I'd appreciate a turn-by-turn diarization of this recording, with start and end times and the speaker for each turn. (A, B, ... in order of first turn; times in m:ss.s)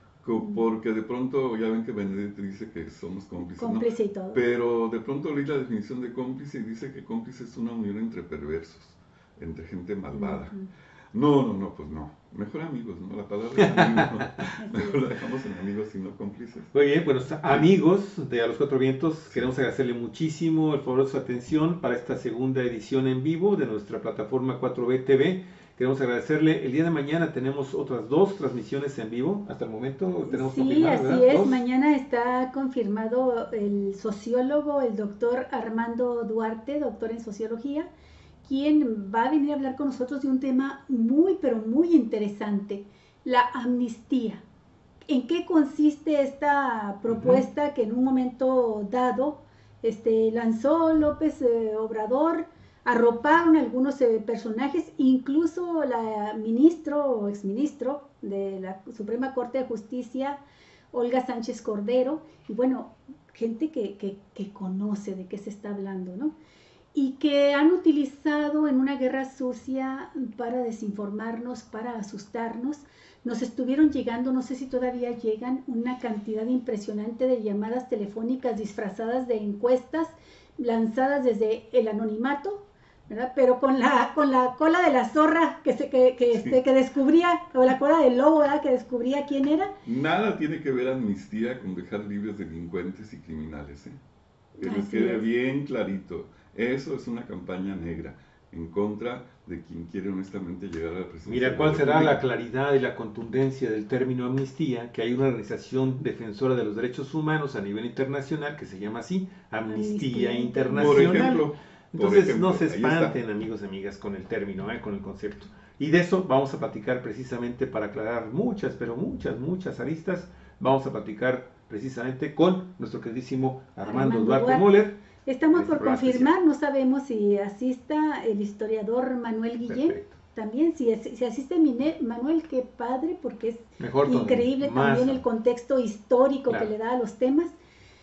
0:00.2-0:10.5 A
0:00.4-0:00.6 B
0:03.4-0:04.4 B
0:10.1-0:10.7 B
0:11.1-0:16.7 A
0:13.6-0:14.2 C
0:14.6-0:15.0 B
0:16.7-0:31.6 C
0:30.2-0:37.9 B
0:38.4-0:44.4 B
0:45.1-1:00.4 B
0:47.1-0:47.4 C
1:00.9-1:06.4 B
1:06.9-1:29.7 B
1:29.8-1:34.0 A
1:34.6-1:42.2 A
1:34.6-1:35.3 B
1:41.3-2:05.0 C
1:49.6-1:51.3 B
1:50.7-1:53.2 A
2:03.8-2:17.5 B
2:05.5-2:06.3 C
2:09.6-2:10.1 C
2:13.8-2:15.2 C